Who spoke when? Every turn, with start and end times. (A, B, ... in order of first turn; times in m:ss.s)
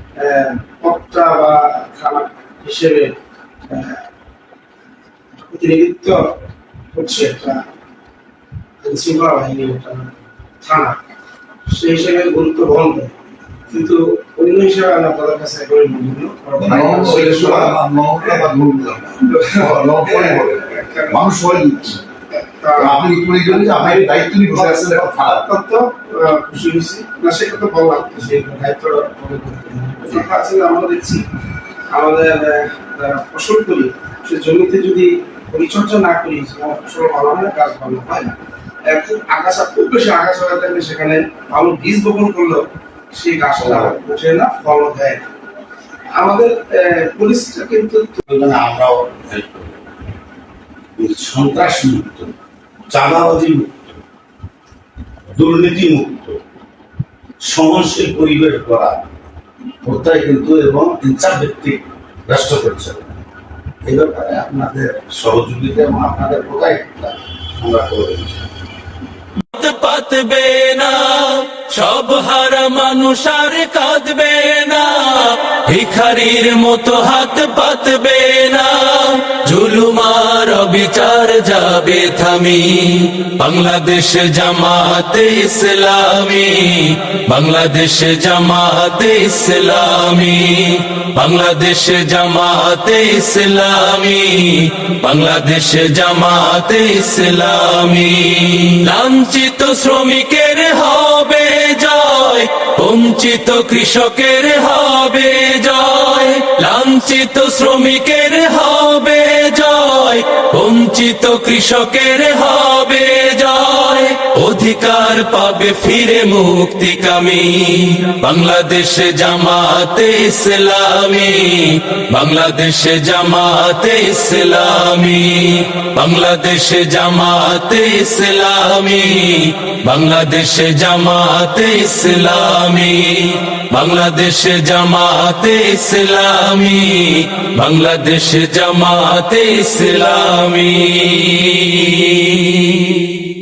0:00.2-0:03.2 A
0:03.7-0:04.0 A
0:05.4-0:06.3 A
0:06.9-0:07.6 A
0:08.8-0:11.0 A
0:11.7-0:13.1 A
0:13.7-0:18.5 A
0:16.6-0:22.0 B
0:19.2-0:21.2 A
0:22.4-0:31.3 A
0:22.8-0:25.5 B
0:31.9-0:45.3 A
0:43.6-0:44.0 B
0:46.2-0:48.2 A
0:48.3-0:49.7 B
0:51.0-0:52.3 B
0:52.9-0:53.9 B
0:55.3-0:56.4 B
0:57.4-0:59.1 B
0:59.8-1:03.1 B
1:03.9-1:08.5 B
1:09.4-2:23.0 C